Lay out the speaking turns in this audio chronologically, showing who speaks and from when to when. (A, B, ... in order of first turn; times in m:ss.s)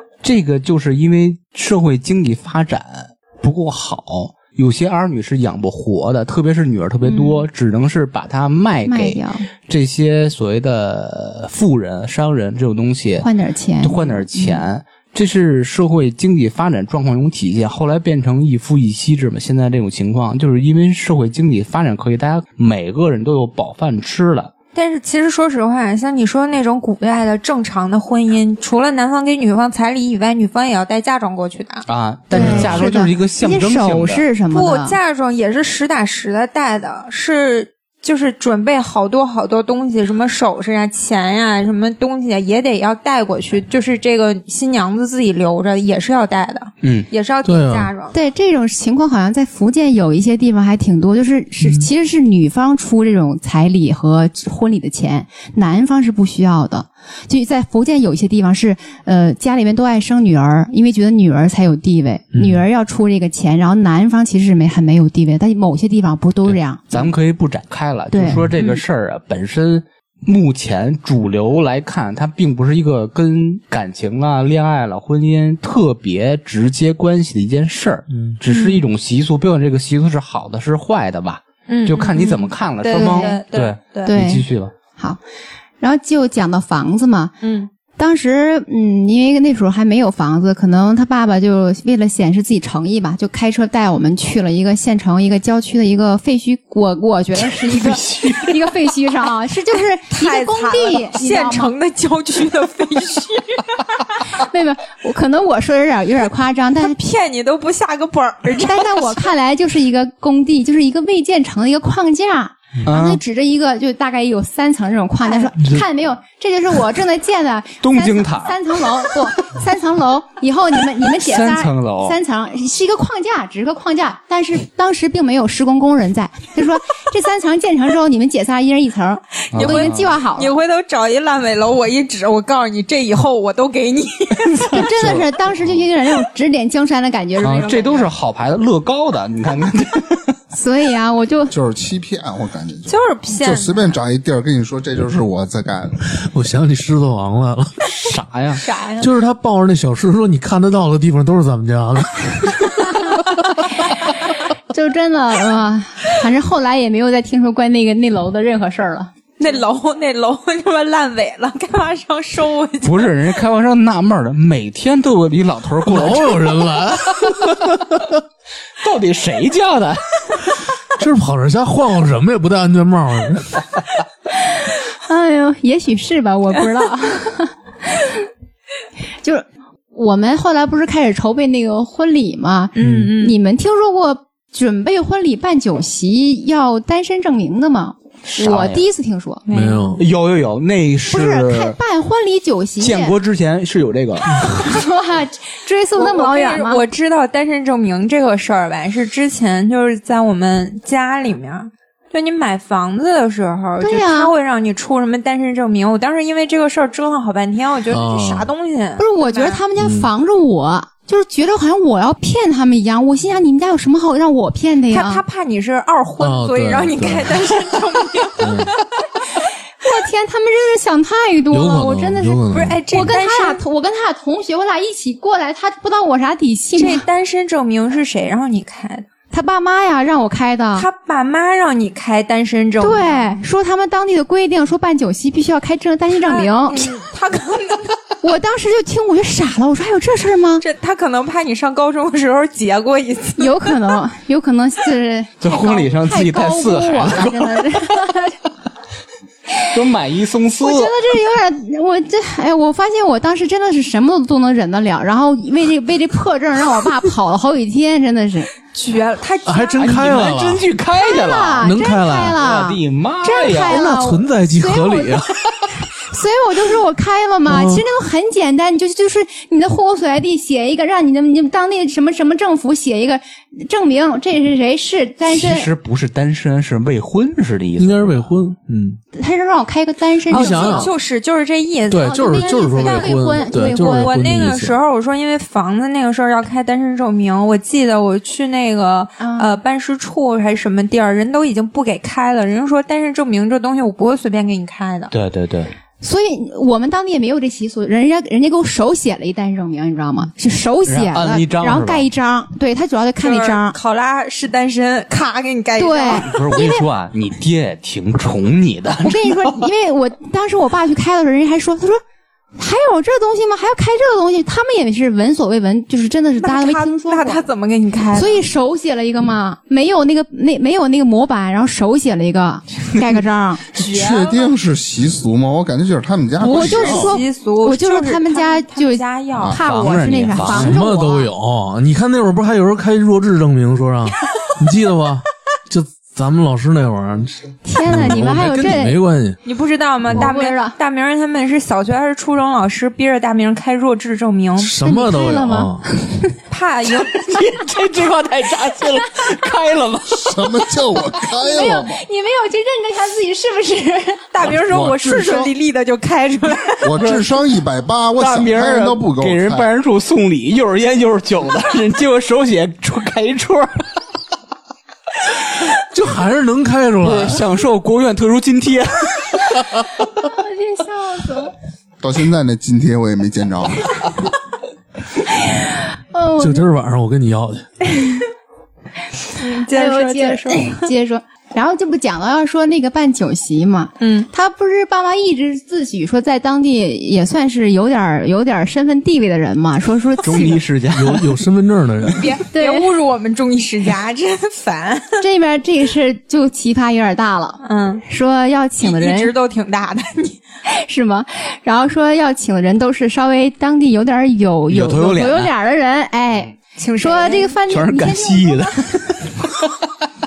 0:00.2-0:13.3 A
0:07.0-0:07.4 B
0:08.9-0:09.5 C
0:13.2-0:14.6 C
0:13.8-0:24.5 A
0:24.8-0:32.7 B
0:31.9-0:34.3 A
0:32.3-0:35.0 C
0:32.5-0:32.7 D
0:34.5-0:48.2 B
0:46.8-0:47.1 A
0:47.4-0:47.9 D
0:48.1-1:07.1 C
1:06.5-1:24.7 A
1:08.1-1:08.5 C
1:08.6-1:08.8 B
1:18.5-1:18.8 B
1:21.7-1:24.1 B
1:22.9-1:23.4 C
1:24.0-1:25.2 C
1:25.8-1:27.3 C
1:27.4-1:27.7 B
1:28.0-1:41.7 C
1:37.4-1:38.6 A
1:40.1-1:44.2 B
1:44.3-1:47.0 C
1:46.8-1:49.2 B
1:48.6-2:10.5 C
1:52.9-1:53.2 A
1:57.8-1:58.6 A
2:01.2-2:02.2 A
2:09.5-2:10.0 A
2:09.5-2:14.8 B
2:14.6-2:15.2 A
2:14.7-2:18.1 C
2:17.4-2:20.4 A
2:20.5-2:21.5 C
2:21.5-2:26.0 E
2:22.9-2:23.9 B
2:26.1-2:27.8 D
2:28.0-2:28.6 A
2:28.6-2:29.1 B
2:29.0-2:33.9 D
2:34.7-2:39.1 C
2:39.4-2:43.1 B
2:42.8-2:47.8 A
2:45.8-2:48.2 D
2:48.8-2:50.5 A
2:51.0-2:53.6 D
2:54.4-2:58.2 C
2:59.2-3:09.4 C
3:02.8-3:03.4 B
3:02.8-3:03.1 D
3:08.2-3:08.9 A
3:09.5-3:10.0 B
3:09.5-3:10.0 D
3:10.0-3:11.8 A
3:11.1-3:13.2 C
3:12.8-3:14.5 A
3:14.4-3:16.8 C
3:16.0-3:29.6 B
3:23.8-3:24.3 C
3:27.9-3:28.5 D
3:29.0-3:35.2 C
3:29.8-3:30.1 D
3:34.9-3:38.9 B
3:36.2-3:37.8 D
3:38.4-3:38.7 D
3:39.8-3:47.1 C
3:41.5-3:42.8 D
3:42.5-3:43.6 B
3:46.8-3:49.1 B
3:49.3-3:50.9 C
3:50.8-3:53.4 B
3:52.8-3:56.9 C
3:56.1-3:58.0 B
3:58.2-4:00.6 C
4:00.6-4:03.8 B
4:03.4-4:08.4 C
4:05.4-4:07.8 A
4:09.7-4:11.0 A
4:10.6-4:18.5 C
4:18.7-4:20.0 B
4:19.5-4:20.6 D
4:19.8-4:21.7 A
4:21.0-4:25.2 C
4:21.6-4:22.4 D
4:22.4-4:23.8 A
4:23.5-4:25.4 D
4:26.1-4:35.7 C
4:27.5-4:27.8 D
4:35.3-4:38.3 A
4:37.8-4:39.0 D
4:39.1-4:40.9 C
4:40.3-4:41.0 D
4:40.3-4:55.1 B
4:41.9-4:44.8 D
4:42.0-4:44.1 C
4:49.2-4:49.6 C
4:55.1-4:55.7 A
4:56.0-5:03.8 C
5:00.9-5:02.1 A
5:03.2-5:06.4 B
5:05.8-5:06.8 C
5:06.1-5:09.7 A
5:09.0-5:12.0 C
5:12.6-5:17.5 C
5:16.4-5:18.4 B
5:18.1-5:23.6 C
5:23.7-5:24.4 B
5:23.8-5:27.1 E
5:26.4-5:31.3 C
5:26.4-5:29.6 B
5:29.6-5:30.8 A
5:30.4-5:39.4 D
5:37.6-5:39.0 C
5:39.4-5:44.7 B
5:40.1-5:40.8 C
5:44.6-5:45.9 D
5:44.8-5:46.4 C
5:46.5-5:47.3 B
5:47.1-5:50.7 A
5:50.3-5:52.0 E
5:51.3-5:54.3 C
5:54.3-5:57.2 B
5:55.0-5:55.4 D
5:56.8-5:59.7 E
5:57.0-5:57.2 A
5:58.2-6:03.9 A
6:05.8-6:07.4 D
6:07.0-6:09.6 A
6:10.2-6:11.5 C
6:12.0-6:13.9 E
6:15.7-6:16.7 C
6:16.4-6:17.7 D
6:19.4-6:20.9 B
6:19.4-6:30.6 C
6:24.0-6:24.3 B
6:30.2-6:31.3 A
6:30.9-6:32.4 D
6:32.1-6:35.2 B
6:32.5-6:32.9 C
6:35.2-6:39.3 C
6:37.6-6:38.0 B
6:38.8-6:40.4 B
6:40.7-6:49.0 C
6:44.7-6:45.5 A
6:46.8-6:47.6 B
6:47.7-6:49.3 A